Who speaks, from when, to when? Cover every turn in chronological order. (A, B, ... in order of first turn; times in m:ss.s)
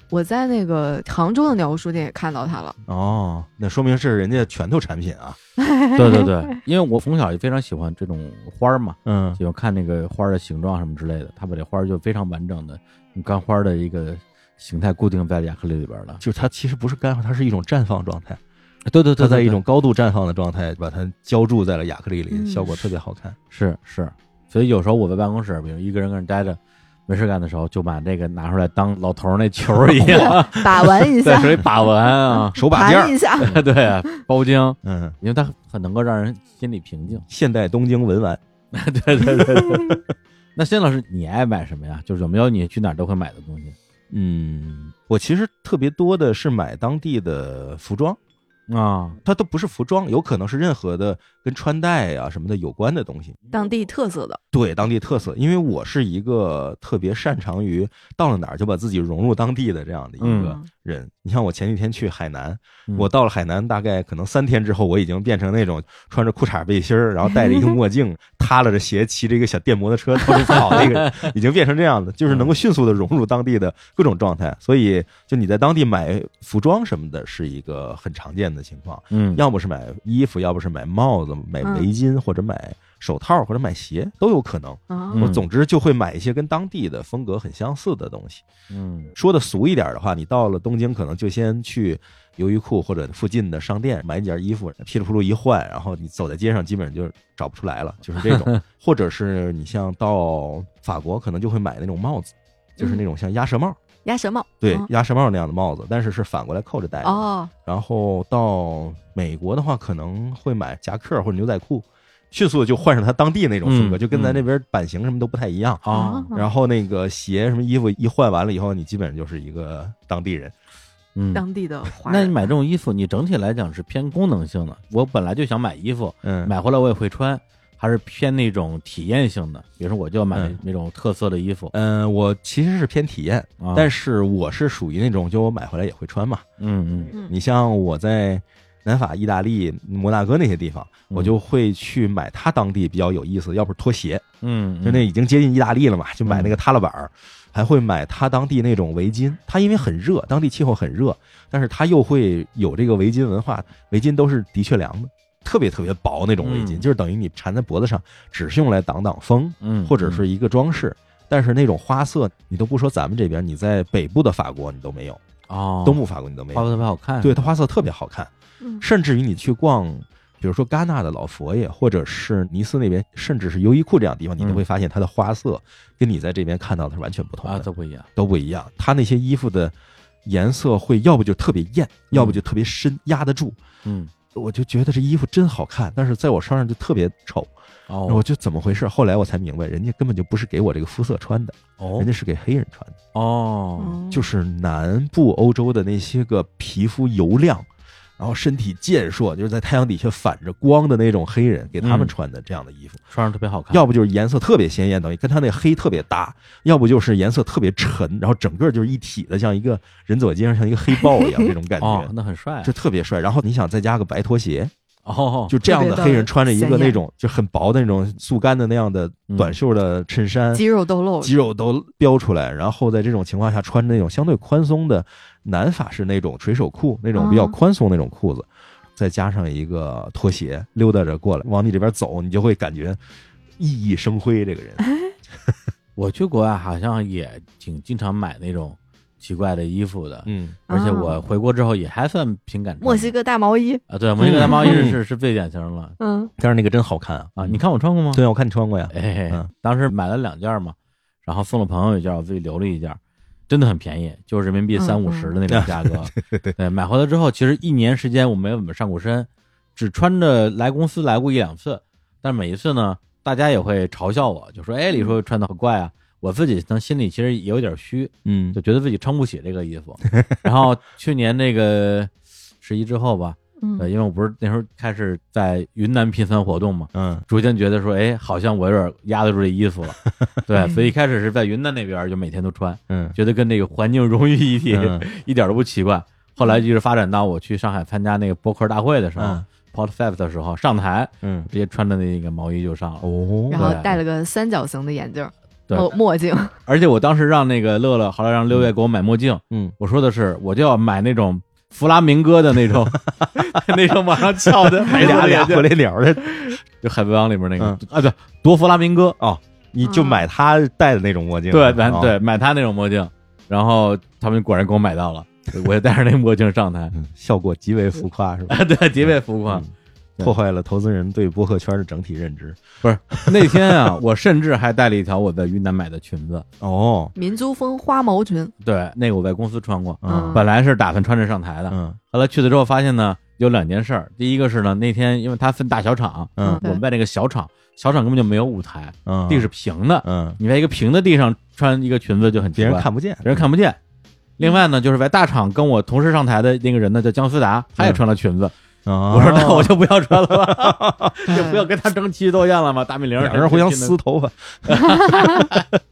0:00.1-0:02.8 A
0:02.8-0:05.4 B
0:05.6-0:06.5 A
0:05.9-0:16.2 C
0:09.0-0:09.4 B
0:16.2-0:18.4 B
0:18.9-0:19.6 C
0:19.2-0:23.4 B
0:22.3-0:22.9 A
0:23.5-0:32.6 C
0:30.0-0:30.4 B
0:30.1-0:31.8 A
0:32.6-0:33.6 B
0:32.6-0:33.5 A
0:33.4-0:37.2 C
0:34.8-0:35.2 B
0:37.3-0:38.4 B
0:38.7-0:40.0 C
0:40.6-0:43.8 C
0:44.1-0:48.2 B
0:48.7-0:49.2 C
0:49.2-0:53.4 B
0:53.5-0:54.4 A
0:54.5-1:28.4 B
1:00.2-1:00.7 A
1:00.2-1:00.6 C
1:07.3-1:07.8 A
1:10.5-1:11.3 C
1:19.1-1:19.4 C
1:21.6-1:21.9 A
1:24.9-1:25.3 A
1:25.1-1:25.4 C
1:28.7-1:29.1 C
1:29.1-1:43.8 B
1:38.2-1:38.6 C
1:44.0-1:44.9 A
1:44.6-2:00.5 B
1:47.0-1:47.5 A
1:53.6-1:54.4 C
1:55.8-1:56.3 C
1:55.9-1:56.5 A
2:01.2-2:01.4 C
2:01.3-2:02.5 A
2:02.0-2:11.7 C
2:06.2-2:06.5 B
2:10.3-2:10.6 B
2:11.7-2:16.4 B
2:13.6-2:13.9 C
2:16.6-2:17.1 C
2:17.2-2:24.2 B
2:21.1-2:21.3 C
2:24.4-2:25.1 C
2:24.8-2:45.2 B
2:26.2-2:26.5 C
2:36.4-2:36.8 C
2:39.6-2:40.2 C
2:45.5-2:46.0 C
2:45.8-2:46.7 B
2:46.5-2:47.4 C
2:47.2-2:59.7 B
2:54.4-2:54.6 C
2:57.4-2:58.1 C
3:00.2-3:03.6 B
3:02.1-3:02.4 C
3:03.8-3:04.1 C
3:04.3-3:07.5 B
3:07.9-3:08.2 C
3:08.1-3:13.0 B
3:11.8-3:12.1 C
3:13.1-3:14.0 C
3:13.8-3:14.3 A
3:14.1-3:23.0 B
3:21.8-3:22.1 C
3:23.1-3:23.8 C
3:23.7-3:32.1 B
3:31.2-3:31.5 A
3:31.8-3:32.7 C
3:32.6-3:34.7 B
3:35.0-3:35.5 C
3:35.5-3:40.6 B
3:35.6-3:37.0 A
3:39.3-3:39.5 C
3:40.5-3:41.3 A
3:41.2-3:53.0 B
3:47.1-3:47.5 A
3:53.6-3:54.8 B
3:56.0-4:03.1 C
4:00.2-4:00.6 B
4:00.7-4:01.2 A
4:02.8-4:03.8 A
4:03.9-4:06.0 C
4:04.2-4:05.0 B
4:04.4-4:04.8 A
4:06.0-4:06.3 A
4:06.4-4:07.6 B
4:07.4-4:08.2 C
4:08.1-4:09.5 B
4:08.9-4:53.9 C
4:14.7-4:15.3 A
4:15.5-4:16.5 B
4:28.2-4:28.6 B
4:33.6-4:33.9 A
4:36.9-4:37.2 B
4:40.6-4:40.9 A
4:42.9-4:43.2 B
4:44.7-4:45.0 B
4:46.4-4:46.6 A
4:49.2-4:49.4 B
4:51.2-4:51.5 B
4:53.0-4:53.8 B
4:53.5-4:56.5 A
4:56.6-5:05.7 C
5:02.7-5:03.4 B
5:04.4-5:06.6 B
5:06.8-5:09.2 C
5:09.2-5:12.1 B
5:09.8-5:10.2 A
5:11.5-5:16.9 C
5:16.9-5:24.0 B
5:18.5-5:19.6 C
5:22.8-5:26.4 C
5:26.6-5:27.1 B
5:27.1-5:28.5 A
5:28.6-5:43.8 C
5:30.0-5:30.4 B
5:30.0-5:30.4 A
5:31.7-5:32.0 B
5:36.4-5:36.6 B
5:36.4-5:36.8 A
5:39.0-5:39.5 B
5:40.0-5:40.4 B
5:42.6-5:43.4 B
5:44.4-5:48.5 C
5:48.8-5:51.4 B
5:49.1-5:54.0 C
5:51.3-5:51.7 A
5:53.2-5:55.5 B
5:54.7-5:55.7 C